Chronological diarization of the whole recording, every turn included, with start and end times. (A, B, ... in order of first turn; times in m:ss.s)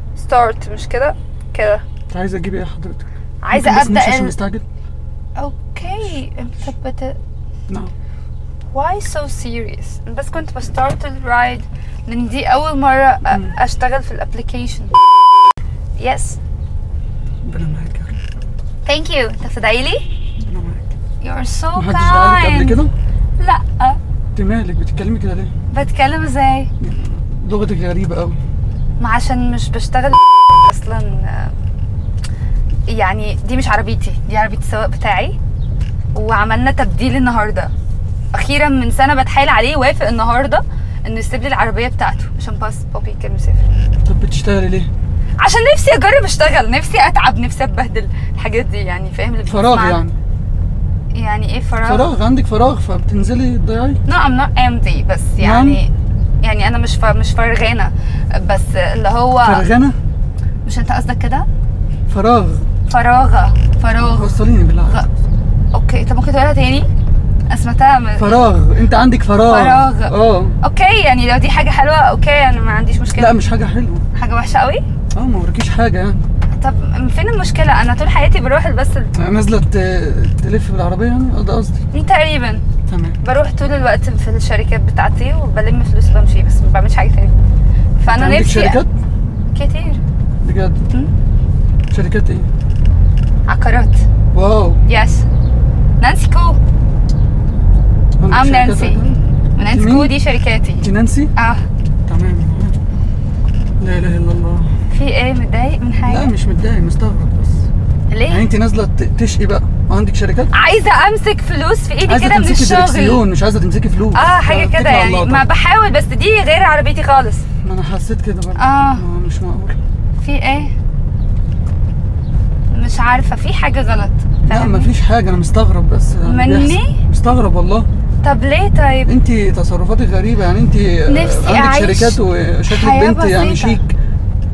0:00.2-0:01.8 A
0:02.1-0:04.6 B
0:03.4-0:04.4 A
0:05.4-0:07.2 A
0:08.7-0:14.9 A
0:16.0-0:16.4 A
0:17.4-0:18.2 B
0:18.8-0:20.0 A
0:20.5-0:20.8 B
0:21.2-0:22.8 A
0:21.7-0:22.9 B
0:23.4-0:24.0 A
0:24.3-0:25.5 B
0:25.7-0:26.7 A
0:26.8-0:28.4 B
0:29.0-0:31.5 A
0:32.9-0:35.4 A
0:36.1-0:37.7 A
0:38.3-0:43.6 A
0:44.0-0:44.9 B
0:45.4-0:50.0 A
0:49.5-0:50.2 B
0:51.1-0:52.0 A
0:51.8-0:54.0 B
0:54.1-0:55.9 A
0:55.4-0:55.8 B
0:56.4-0:59.6 A
0:59.4-1:00.0 B
1:00.6-1:01.4 A
1:02.1-1:02.6 B
1:02.9-1:04.4 A
1:04.0-1:05.1 B
1:05.7-1:06.9 A
1:07.5-1:08.5 A
1:08.2-1:10.5 B
1:09.5-1:13.3 A
1:13.2-1:14.0 B
1:14.1-1:14.8 A
1:15.1-1:16.2 B
1:16.6-1:19.1 A
1:19.2-1:21.8 B
1:21.9-1:22.6 A
1:22.9-1:23.2 B
1:23.2-1:27.3 A
1:28.0-1:28.8 A
1:28.1-1:28.9 B
1:29.5-1:30.0 A
1:30.4-1:30.8 B
1:31.9-1:32.5 B
1:33.5-1:34.0 A
1:34.3-1:34.8 B
1:34.9-1:35.2 A
1:36.0-1:36.6 A
1:38.2-1:40.1 B
1:38.3-1:39.0 A
1:39.6-1:40.8 A
1:40.8-1:41.3 B
1:41.4-1:41.6 A
1:42.1-1:42.8 B
1:43.8-1:44.7 B
1:44.9-1:46.3 A
1:46.1-1:47.6 B
1:48.1-1:48.5 A
1:48.3-1:50.5 B
1:50.5-1:53.2 A
1:52.1-1:55.4 B
1:54.1-1:57.4 A
1:57.6-1:59.8 B
1:58.6-1:59.0 A
2:00.2-2:00.7 A
2:02.7-2:04.9 A
2:04.4-2:07.9 B
2:06.2-2:07.0 A
2:08.2-2:09.1 A
2:09.0-2:13.9 B
2:11.1-2:12.2 A
2:12.7-2:13.8 A